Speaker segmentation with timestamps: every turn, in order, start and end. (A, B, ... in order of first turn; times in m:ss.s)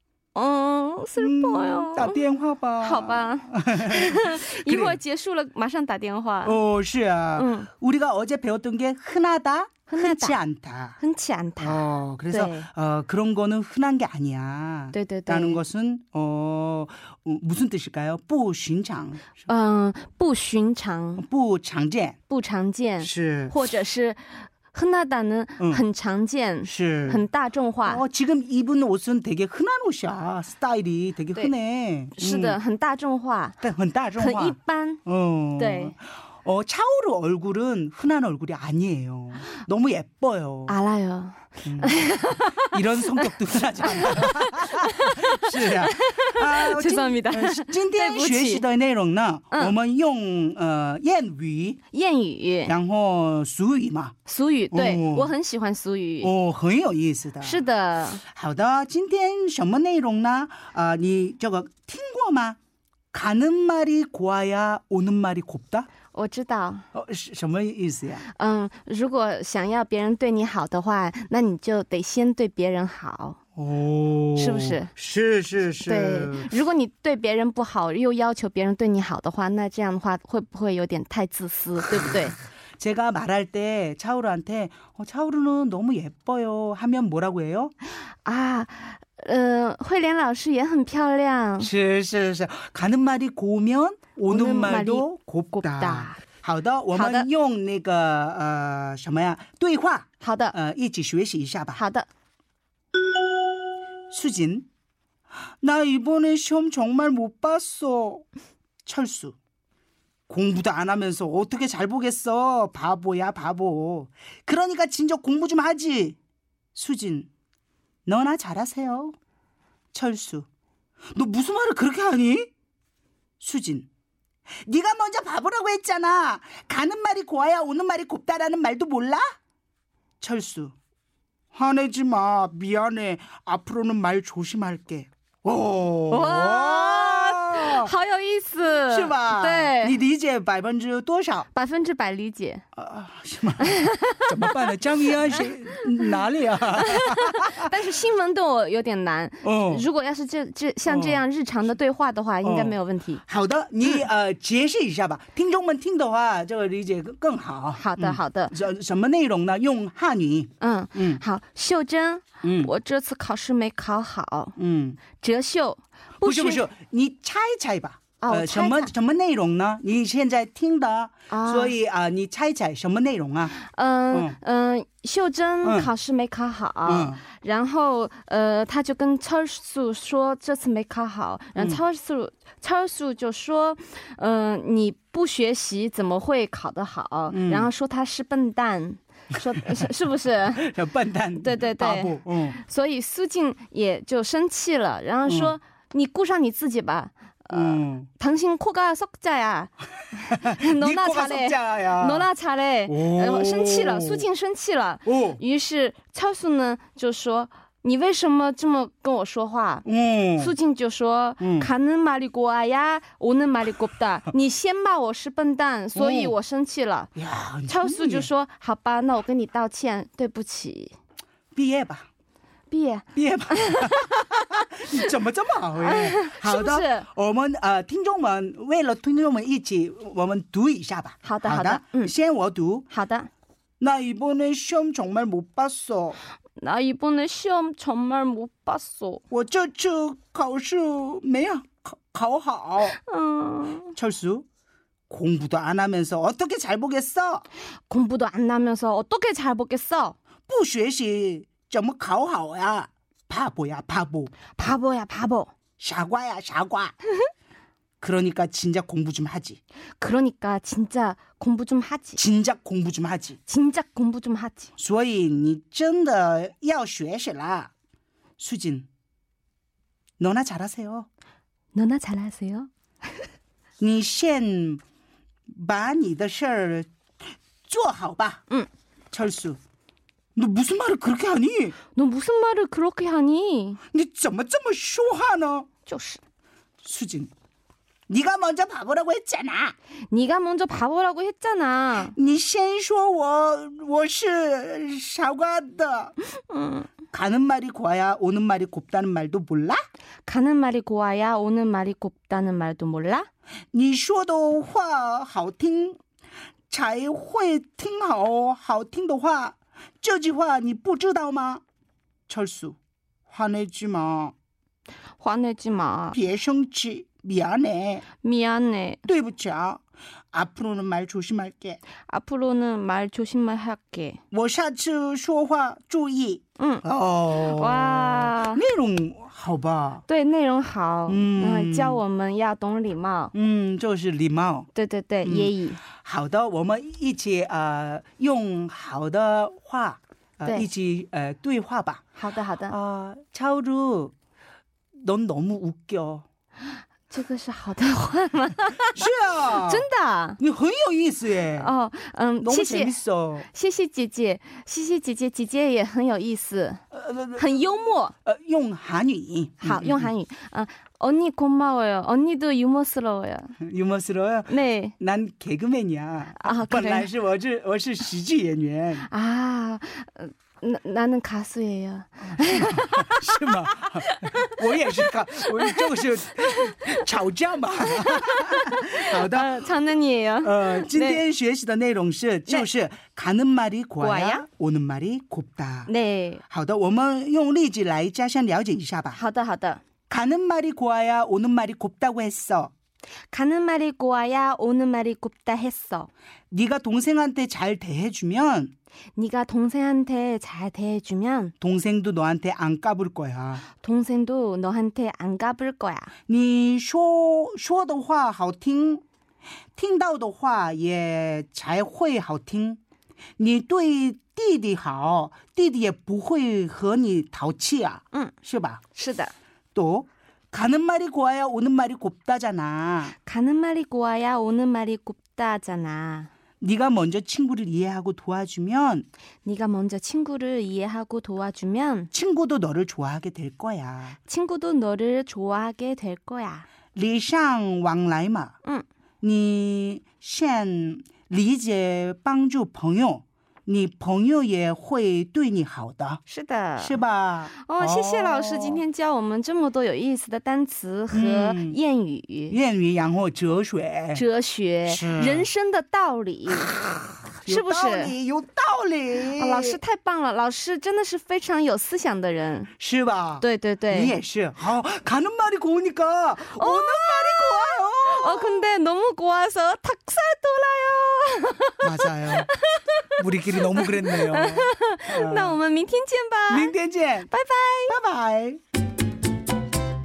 0:00.3-0:02.2 A
0:01.2-0:05.0 B
0:02.8-0:06.6 A
0:06.4-0:11.0 B
0:07.3-0:07.7 A
0:09.9-0:10.4 A
0:11.0-0:12.7 A
0:11.6-0:19.4 B
0:14.9-0:15.6 A
0:19.4-0:21.2 A
0:21.2-0:22.2 B
0:22.3-0:28.0 A
0:23.0-0:23.6 B
0:25.6-0:25.8 B
0:26.6-0:27.2 B
0:27.8-0:32.6 B
0:32.2-0:33.6 A
0:33.6-0:40.7 B
0:34.2-0:35.0 A
0:35.6-0:35.9 A
0:40.7-0:43.3 A
0:41.6-0:42.0 B
0:42.6-0:51.8 B
0:43.8-0:48.6 A
0:51.9-0:52.7 A
0:52.7-0:54.2 B
0:54.3-0:56.3 A
0:54.7-0:55.3 B
0:56.2-0:57.6 B
0:57.4-0:58.2 A
0:58.2-1:02.6 B
1:03.1-1:05.9 B
1:06.1-1:06.9 A
1:06.9-1:08.3 B
1:08.3-1:13.4 A
1:13.6-1:16.5 B
1:14.4-1:14.9 A
1:15.8-1:22.4 A
1:22.8-1:27.7 B
1:28.1-1:31.7 A
1:31.6-1:41.8 B
1:34.3-1:36.2 A
1:36.9-1:37.3 A
1:40.2-1:40.6 A
1:41.7-1:42.1 A
1:44.1-1:44.7 B
1:45.6-1:48.2 B
1:48.8-1:49.4 B
1:50.3-1:56.2 B
1:56.7-1:57.3 B
1:58.0-1:59.1 B
1:59.9-2:00.4 B
2:01.1-2:02.5 B
2:03.4-2:03.9 B
2:04.6-2:09.3 B
2:10.2-2:10.7 B
2:11.5-2:17.9 B
2:16.1-2:20.0 A
2:18.9-2:21.5 B
2:21.5-2:22.6 A
2:22.7-2:27.7 B
2:23.6-2:24.5 A
2:26.8-2:33.2 A
2:29.4-2:29.8 B
2:30.9-2:31.2 B
2:32.4-2:41.2 B
2:37.7-2:38.5 A
2:40.6-2:44.6 A
2:42.4-2:42.7 B
2:44.6-2:45.0 B
2:45.1-2:46.6 A
2:46.2-2:53.5 B
2:48.2-2:48.9 A
2:51.3-2:51.7 A
2:53.6-3:10.7 A
2:54.1-2:54.4 B
2:55.6-2:55.9 B
2:56.8-2:57.2 B
3:01.6-3:01.8 B
3:07.3-3:07.7 B
3:10.6-3:12.6 B
3:11.4-3:29.8 A
3:15.2-3:15.6 B
3:17.5-3:18.1 B
3:20.3-3:22.3 B
3:22.9-3:24.2 B
3:25.0-3:25.4 B
3:29.8-3:30.5 B
3:30.4-3:37.1 A
3:31.4-3:31.7 B
3:36.0-3:36.4 B
3:37.1-3:38.3 B
3:37.7-3:40.9 A
3:41.5-3:42.1 B
3:42.7-3:44.2 A
3:43.1-3:52.9 B
3:45.8-3:47.1 A
3:51.2-3:52.1 A
3:52.9-3:53.3 A
3:53.8-3:56.2 B
3:56.6-3:59.2 A
3:59.3-4:03.0 B
4:03.0-4:03.9 A
4:04.0-4:04.4 B
4:05.1-4:07.4 B
4:07.9-4:10.2 A
4:10.5-4:14.3 B
4:14.6-4:15.5 A
4:15.8-4:16.9 B
4:18.0-4:19.6 B
4:20.0-4:22.2 A
4:22.2-4:23.4 B
4:23.5-4:24.7 A
4:24.8-4:27.7 B
4:28.4-4:28.9 B
4:30.2-4:31.1 B
4:31.7-4:33.2 A
4:33.8-4:34.8 B
4:35.5-4:36.9 B
4:37.6-4:38.4 B
4:39.1-4:39.6 B
4:40.4-4:41.8 B
4:41.9-4:43.8 A
4:43.9-4:45.7 B
4:45.8-4:46.2 A
4:46.8-4:47.3 B
4:48.1-4:49.7 B
4:50.1-4:52.2 A
4:52.2-4:56.1 B
4:56.5-4:56.9 A
4:57.1-4:59.8 B
5:00.2-5:03.3 A
5:03.7-5:06.0 B
5:06.7-5:11.6 B
5:12.3-5:12.8 B
5:13.3-5:14.3 B
5:15.2-5:16.2 A
5:16.1-5:18.0 B
5:18.2-5:19.0 A
5:19.0-5:21.8 B
5:22.1-5:24.2 A
5:24.3-5:30.0 B
5:26.6-5:28.6 A
5:30.1-5:33.3 A
5:31.1-5:32.0 B
5:33.3-5:34.7 B
5:34.7-5:35.8 A
5:35.2-5:42.0 B
5:42.2-5:42.8 A
5:42.7-5:44.1 B
5:45.0-5:46.2 B
5:47.1-5:50.4 A
5:48.9-5:49.8 B
5:50.4-5:51.7 B
5:51.6-5:52.9 A
5:52.4-5:53.5 B
5:53.4-5:56.8 A
5:56.9-5:57.6 B
5:57.3-5:58.1 A
5:58.2-6:00.1 B
5:59.6-6:03.6 A
6:03.6-6:09.1 B
6:04.5-6:05.0 A
6:06.4-6:07.1 A
6:09.1-6:15.8 A
6:12.2-6:19.5 B
6:16.4-6:17.0 A
6:17.9-6:21.2 A
6:20.4-6:25.9 B
6:24.0-6:24.4 A
6:25.8-6:26.4 A
6:26.5-6:29.2 B
6:29.1-6:29.8 A
6:30.1-6:32.7 B
6:33.3-6:36.1 A
6:36.5-6:38.7 B
6:39.2-6:41.5 A
6:41.6-6:43.6 B
6:43.8-6:46.1 A
6:46.3-6:49.0 B
6:49.8-6:52.8 B
6:53.4-6:58.8 B
6:58.9-6:59.3 A
6:59.7-7:03.2 B
7:03.2-7:06.3 A
7:06.6-7:09.0 B
7:09.4-7:12.1 A
7:12.1-7:14.2 B
7:14.3-7:16.7 A
7:16.9-7:18.6 B
7:19.2-7:26.2 B
7:26.3-7:27.0 A
7:26.8-7:28.8 B
7:27.6-7:32.6 A
7:31.1-7:31.8 B
7:32.5-7:34.2 B
7:34.1-7:36.8 A
7:34.9-7:35.5 B
7:36.9-7:39.8 B
7:37.3-7:38.1 A
7:39.4-7:42.7 A
7:42.8-7:48.6 B
7:43.4-7:44.2 A
7:46.5-7:53.1 A
7:51.8-7:52.5 B
7:53.2-7:55.6 B
7:53.7-7:56.7 A
7:56.5-7:57.3 B
7:57.3-7:58.0 A
7:57.9-7:58.6 B